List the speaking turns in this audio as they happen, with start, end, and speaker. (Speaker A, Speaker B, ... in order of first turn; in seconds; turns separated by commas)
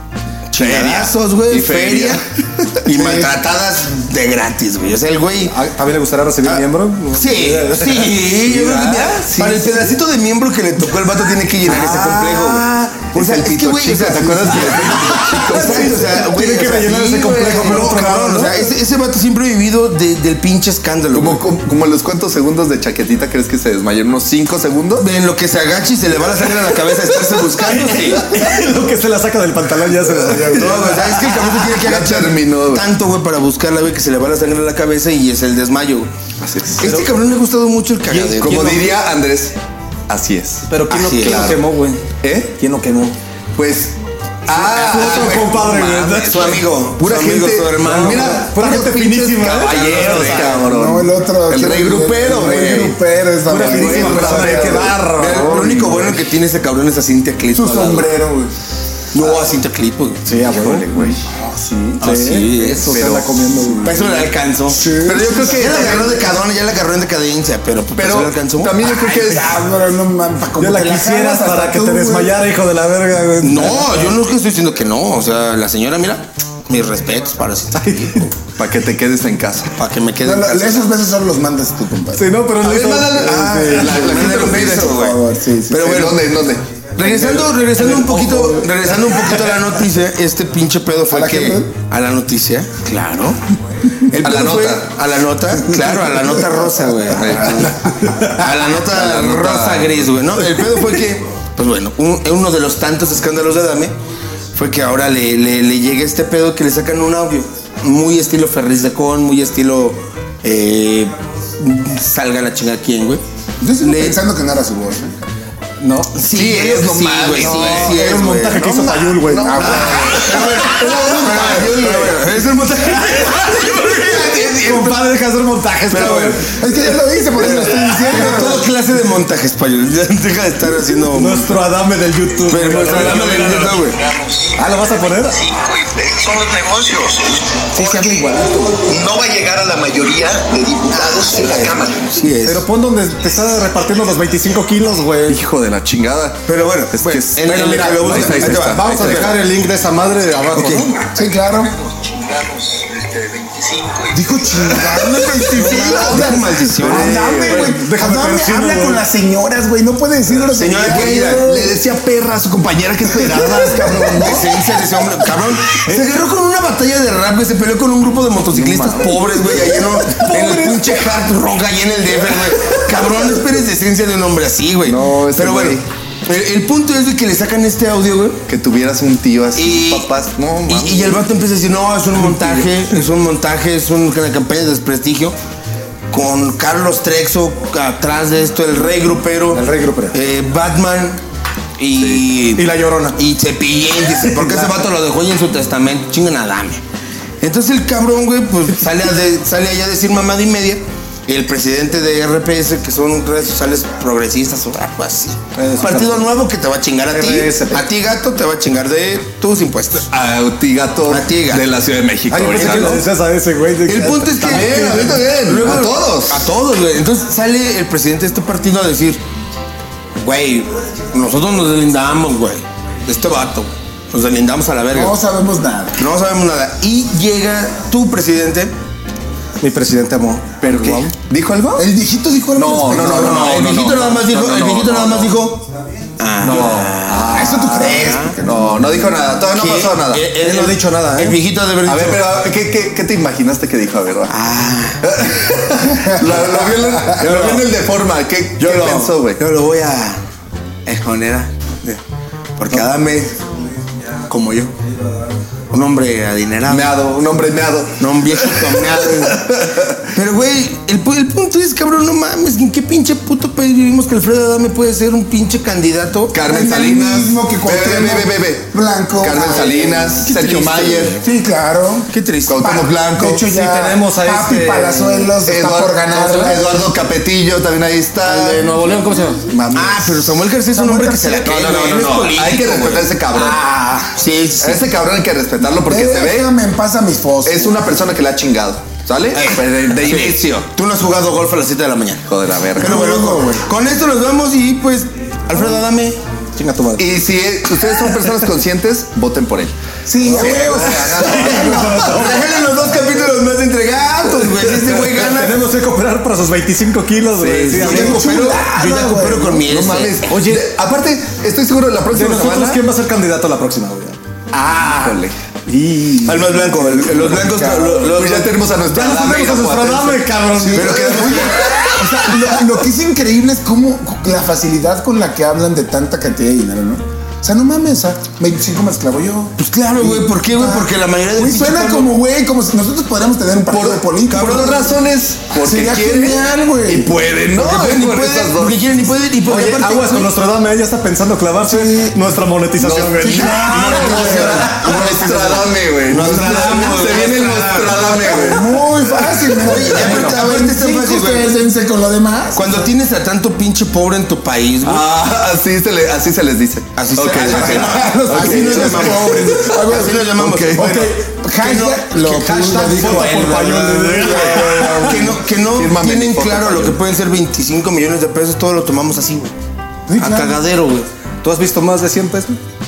Speaker A: 0.5-2.2, Speaker B: 0.6-3.2, Speaker A: 2.8-5.6, Speaker C: 5.4-8.2, Speaker A: 7.1-21.4, Speaker B: 8.4-10.0, Speaker B: 11.6-16.2, Speaker C: 15.0-18.7, Speaker B: 21.1-25.1, Speaker A: 25.0-28.3, Speaker C: 27.5-31.5, Speaker A: 30.5-36.1, Speaker B: 31.1-32.9, Speaker B: 36.4-37.0, Speaker A: 36.8-38.9, Speaker B: 38.1-39.5, Speaker B: 40.1-40.7, Speaker C: 40.7-43.1, Speaker A: 40.9-41.6, Speaker B: 41.3-41.5, Speaker B: 42.2-42.5, Speaker B: 43.5-44.0, Speaker B: 44.5-45.6, Speaker A: 44.5-48.4, Speaker C: 44.7-46.7, Speaker B: 47.0-53.0, Speaker C: 47.8-50.6, Speaker A: 49.7-50.6, Speaker D: 50.6-54.9, Speaker C: 53.4-56.0, Speaker B: 53.5-55.0, Speaker A: 55.1-58.1, Speaker D: 57.5-58.5, Speaker A: 59.1-60.2, Speaker C: 60.2-61.1, Speaker B: 60.3-61.2, Speaker D: 61.3-62.2, Speaker C: 62.0-63.9, Speaker A: 62.0-63.0, Speaker B: 62.9-63.5, Speaker D: 63.6-64.2, Speaker A: 63.8-64.8, Speaker D: 64.7-66.3, Speaker B: 65.0-66.3, Speaker A: 65.5-68.7, Speaker B: 67.9-69.6, Speaker D: 69.0-72.4, Speaker C: 70.6-74.1, Speaker A: 73.4-78.3, Speaker C: 77.8-78.3, Speaker B: 78.5-79.7, Speaker A: 79.7-80.9, Speaker D: 80.2-82.3, Speaker C: 82.1-84.2, Speaker B: 82.6-84.9, Speaker A: 83.7-86.3, Speaker D: 84.3-86.0, Speaker B: 85.8-86.6, Speaker A: 87.0-93.4, Speaker C: 87.1-88.7, Speaker D: 91.1-91.7, Speaker A: 94.1-103.9, Speaker B: 94.2-94.9, Speaker B: 97.1-97.6, Speaker B: 98.6-100.0, Speaker A: 104.5-113.2, Speaker D: 113.6-115.2, Speaker A: 113.8-114.2, Speaker C: 115.8-116.2, Speaker A: 116.1-118.7, Speaker B: 116.3-118.0, Speaker C: 117.3-120.2, Speaker B: 118.7-122.3, Speaker D: 119.4-120.5, Speaker A: 119.5-125.0, Speaker C: 123.0-126.5, Speaker A: 125.9-126.4, Speaker D: 126.5-128.7, Speaker A: 127.4-131.6, Speaker C: 131.1-133.8, Speaker A: 132.4-134.0, Speaker B: 132.9-133.3, Speaker C: 134.5-135.4, Speaker E: 135.5-142.1, Speaker C: 137.7-138.8, Speaker A: 140.9-142.6, Speaker C: 142.4-145.4, Speaker B: 145.3-149.3, Speaker A: 146.4-149.3, Speaker C: 147.5-151.1, Speaker D: 151.1-151.7, Speaker E: 152.3-152.6, Speaker E: 153.3-154.0, Speaker D: 154.1-161.7, Speaker A: 155.1-157.3, Speaker B: 155.6-157.8, Speaker C: 156.8-159.1, Speaker A: 160.5-161.5, Speaker B: 160.8-164.7, Speaker D: 163.2-164.0, Speaker A: 164.0-178.4, Speaker B: 168.5-169.3, Speaker C: 169.4-171.2, Speaker B: 174.8-175.8, Speaker B: 178.5-181.3, Speaker A: 179.5-180.1, Speaker A: 180.7-185.3, Speaker C: 182.2-182.7, Speaker A: 186.1-191.2, Speaker C: 189.5-190.2, Speaker A: 191.8-196.8, Speaker B: 192.0-192.2, Speaker C: 192.5-193.2, Speaker C: 194.2-194.8, Speaker A: 197.4-210.1, Speaker C: 205.5-206.3, Speaker C: 207.1-207.9, Speaker B: 210.1-213.1, Speaker A: 211.1-211.7, Speaker C: 212.3-215.1, Speaker A: 212.5-213.0, Speaker A: 213.8-219.2, Speaker B: 214.4-216.5, Speaker A: 220.2-225.2, Speaker D: 224.9-225.9, Speaker A: 225.9-228.7, Speaker C: 229.6-231.1, Speaker B: 230.6-231.9, Speaker D: 231.8-233.6, Speaker B: 232.5-235.4, Speaker A: 232.9-235.7, Speaker A: 236.2-238.4, Speaker B: 236.4-240.3, Speaker D: 237.3-239.0, Speaker A: 239.5-242.3, Speaker C: 240.4-241.4, Speaker B: 241.8-244.3, Speaker A: 244.3-245.0, Speaker B: 245.0-249.4, Speaker D: 246.9-247.2, Speaker A: 247.2-247.7, Speaker A: 248.6-250.2, Speaker A: 250.8-252.0, Speaker A: 252.6-253.4, Speaker A: 254.2-254.7, Speaker A: 255.7-256.9, Speaker B: 256.6-260.1, Speaker A: 258.0-259.5, Speaker A: 260.1-266.4, Speaker B: 266.3-271.2, Speaker D: 266.4-270.3, Speaker A: 270.3-271.2, Speaker D: 271.2-276.9, Speaker A: 272.1-272.8, Speaker B: 272.5-273.4, Speaker C: 273.4-275.4, Speaker B: 275.4-279.0, Speaker C: 276.1-276.6, Speaker C: 278.3-279.4, Speaker B: 279.5-280.2, Speaker A: 279.7-284.9, Speaker D: 280.7-281.7, Speaker B: 281.4-283.7, Speaker B: 284.6-286.5, Speaker D: 285.8-287.8, Speaker B: 287.4-290.5, Speaker A: 289.3-296.2, Speaker B: 292.2-293.0, Speaker D: 292.8-293.6, Speaker C: 296.5-297.2, Speaker B: 296.9-302.1, Speaker D: 300.1-302.1, Speaker C: 300.6-302.6, Speaker A: 301.6-305.6, Speaker C: 305.3-308.5, Speaker B: 307.4-308.4, Speaker A: 307.7-310.3, Speaker D: 307.8-309.7, Speaker B: 309.6-312.8, Speaker C: 310.2-310.7, Speaker C: 312.1-314.2, Speaker B: 314.5-315.4, Speaker C: 315.7-316.9, Speaker A: 316.2-318.6, Speaker B: 316.7-321.8, Speaker D: 317.3-318.0, Speaker C: 318.9-321.2, Speaker D: 320.6-334.9, Speaker A: 320.7-321.9, Speaker A: 329.6-332.2, Speaker B: 333.6-338.8, Speaker A: 334.3-334.9, Speaker D: 335.5-337.1, Speaker A: 337.5-340.3, Speaker C: 339.4-344.9, Speaker D: 341.6-342.2, Speaker A: 342.8-348.5, Speaker D: 343.1-345.3, Speaker B: 343.9-349.2, Speaker D: 348.2-352.9, Speaker A: 349.6-351.5, Speaker C: 350.0-350.4, Speaker A: 352.5-355.0, Speaker B: 354.8-359.5, Speaker A: 356.9-361.0, Speaker D: 357.7-365.2, Speaker B: 360.4-361.0, Speaker C: 360.8-361.3, Speaker A: 361.6-363.1, Speaker C: 362.2-365.3, Speaker B: 363.4-367.0, Speaker A: 364.4-369.5, Speaker D: 370.1-370.6, Speaker A: 370.1-371.1, Speaker C: 371.4-372.6